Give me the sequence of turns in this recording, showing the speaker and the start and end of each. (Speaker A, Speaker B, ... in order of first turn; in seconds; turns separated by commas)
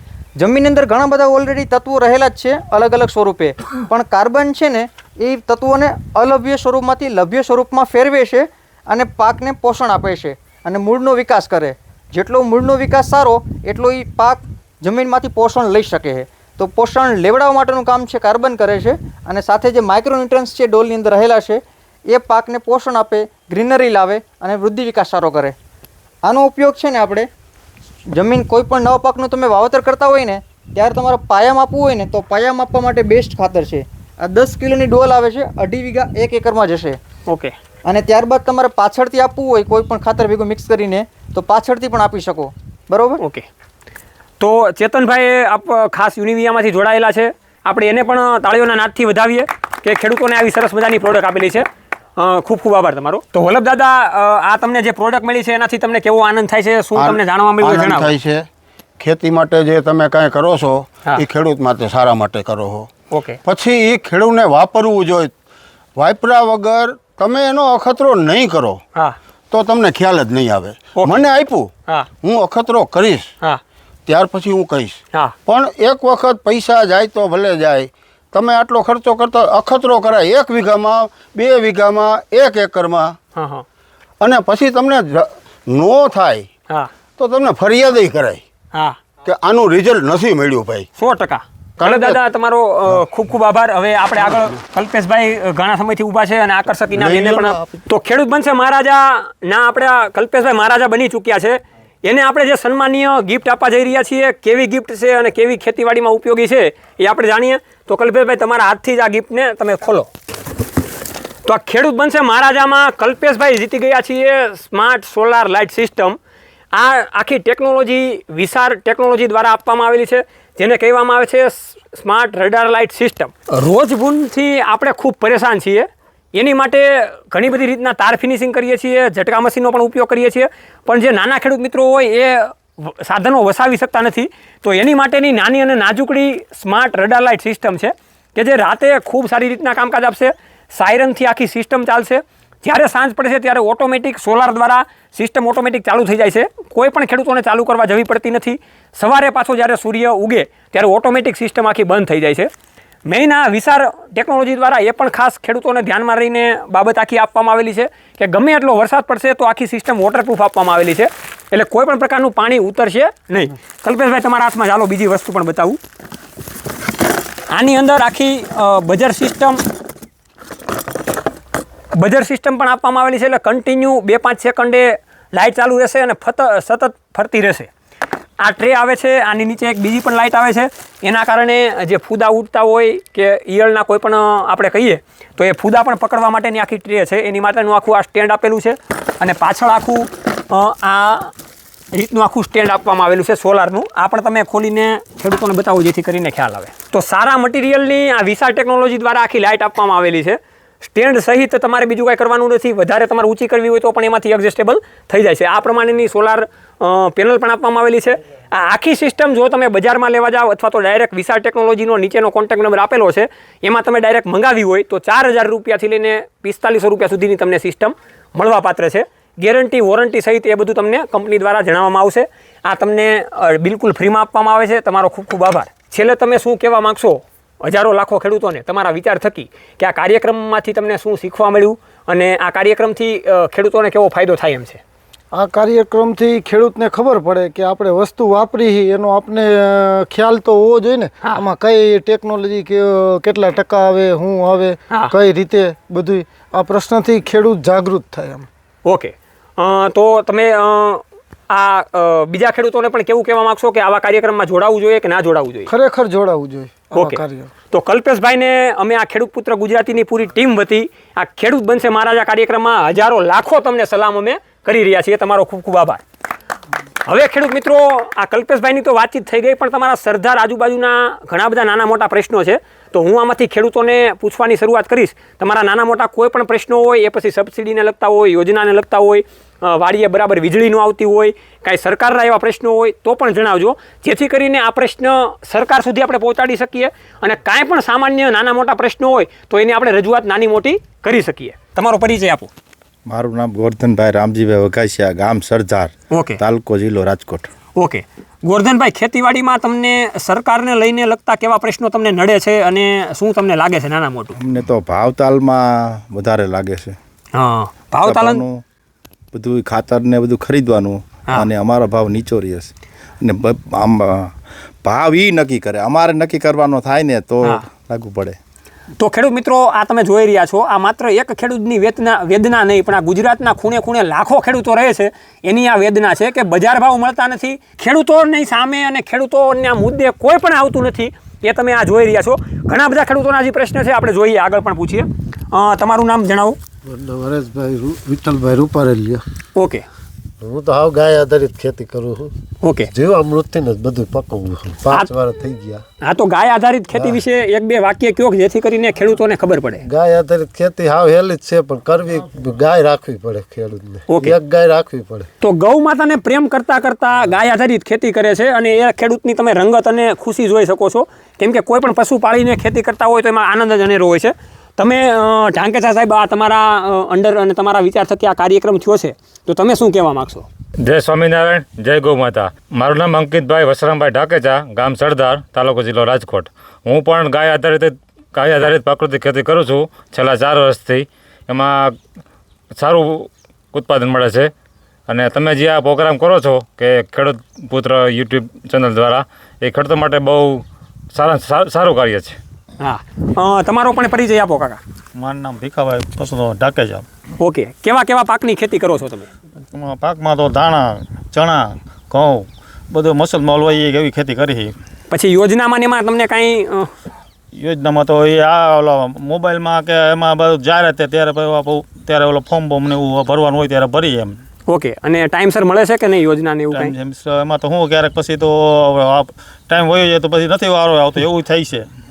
Speaker A: 0.4-25.6, Speaker A: 26.2-27.3, Speaker A: 28.1-37.0, Speaker B: 37.3-37.5, Speaker A: 37.9-43.2, Speaker B: 43.2-43.5, Speaker B: 44.4-51.7, Speaker B: 52.2-58.1, Speaker C: 57.0-58.5, Speaker C: 59.0-62.9, Speaker B: 63.1-63.4, Speaker C: 63.5-65.3, Speaker C: 66.0-68.8, Speaker C: 69.5-71.7, Speaker B: 71.0-71.2, Speaker C: 72.2-73.3, Speaker C: 74.1-83.2, Speaker B: 83.3-83.7, Speaker C: 84.2-86.5, Speaker C: 87.2-88.4, Speaker C: 89.2-90.9, Speaker B: 91.0-110.1, Speaker C: 91.8-92.2, Speaker C: 97.0-97.7, Speaker B: 111.5-116.2, Speaker B: 116.7-152.5, Speaker B: 153.1-165.8, Speaker B: 167.5-169.6, Speaker B: 171.9-177.7, Speaker B: 178.4-191.3, Speaker B: 191.9-234.8, Speaker D: 235.3-248.5, Speaker B: 248.8-255.7, Speaker D: 255.7-257.5, Speaker B: 256.9-266.0, Speaker B: 267.1-292.5, Speaker E: 293.1-297.5, Speaker B: 296.1-296.4, Speaker B: 297.8-304.4, Speaker E: 304.4-307.0, Speaker B: 307.3-308.4, Speaker E: 308.0-308.6, Speaker E: 309.3-318.4, Speaker B: 319.0-336.6, Speaker F: 336.9-339.2, Speaker B: 339.6-339.9, Speaker F: 340.4-342.3, Speaker B: 342.6-342.9, Speaker F: 342.9-345.8, Speaker B: 346.0-349.8, Speaker F: 349.8-355.3, Speaker B: 354.1-354.4, Speaker B: 355.4-370.5, Speaker G: 370.8-382.0, Speaker G: 382.8-384.5, Speaker G: 385.1-392.4, Speaker B: 392.8-394.8, Speaker H: 395.2-397.1, Speaker B: 397.4-399.3, Speaker H: 399.7-404.8, Speaker B: 405.1-406.9, Speaker H: 407.6-414.4, Speaker B: 414.7-416.9, Speaker H: 416.7-421.9